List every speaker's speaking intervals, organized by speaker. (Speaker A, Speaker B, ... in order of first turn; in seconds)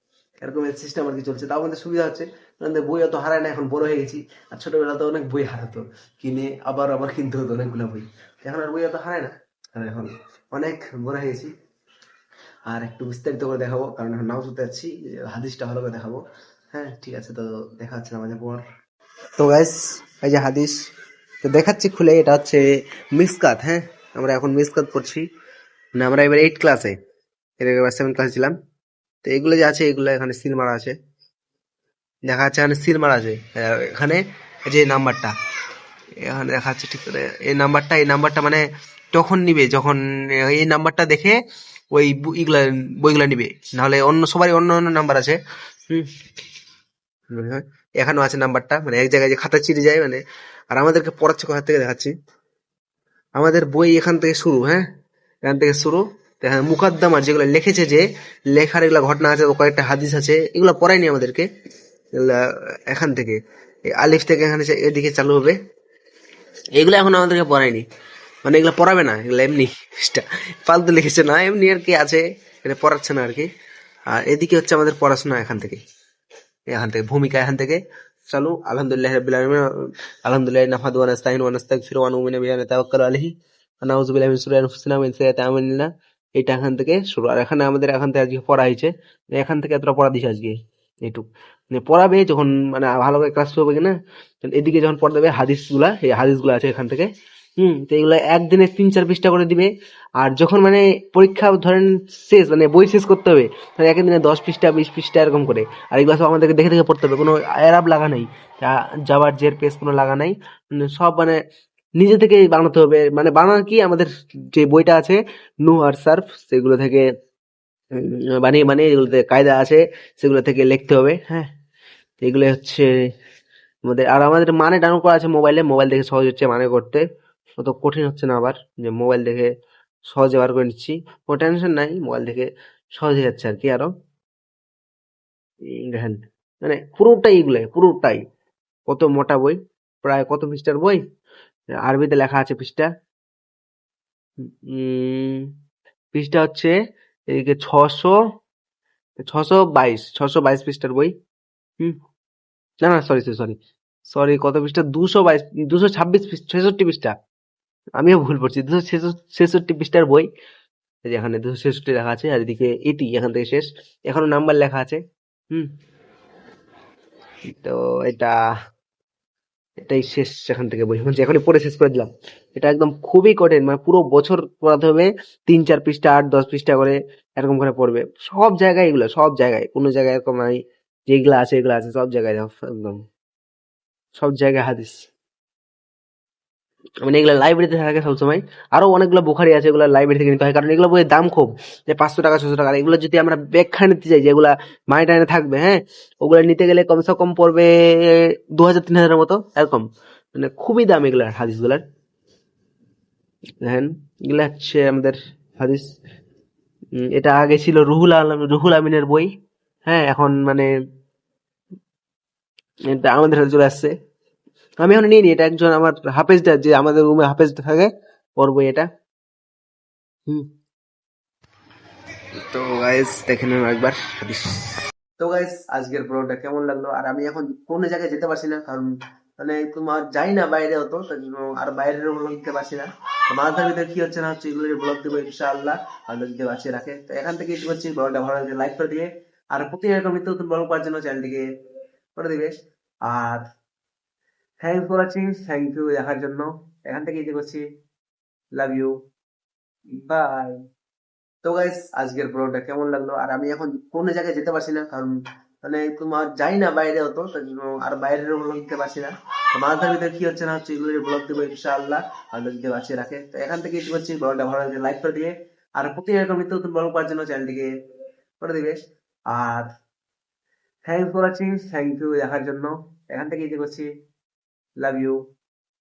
Speaker A: 0.4-11.5, 12.7-18.6, 19.4-20.8, 21.4-25.3, 26.0-27.0, 27.6-28.6, 29.2-30.9, 32.3-35.3, 36.2-41.4, 41.9-46.1, 47.3-52.1, 53.4-54.8, 55.4-61.5, 62.1-65.6, 66.8-67.8, 68.5-73.5, 74.1-75.8, 76.7-111.4, 112.0-117.1, 117.9-121.5, 122.2-122.9, 123.9-127.0, 127.6-129.5, 130.1-133.9, 135.6-138.2, 138.9-141.0, 141.7-142.9, 144.4-145.5, 146.1-146.8, 147.3-148.2, 149.2-151.1, 152.8-153.6, 154.1-157.2, 158.0-160.3, 161.1-165.0, 167.5-168.3, 169.8-183.0, 184.2-185.1, 187.0-201.8, 203.6-205.9, 206.9-209.3, 209.9-210.7, 212.9-213.9, 214.8-218.9, 222.5-224.6, 225.2-241.5, 242.2-242.5, 243.1-243.4, 244.6-247.6, 248.6-248.9, 250.0-250.6, 251.4-267.7, 268.4-268.8, 269.3-269.7, 270.9-273.9, 274.8-275.2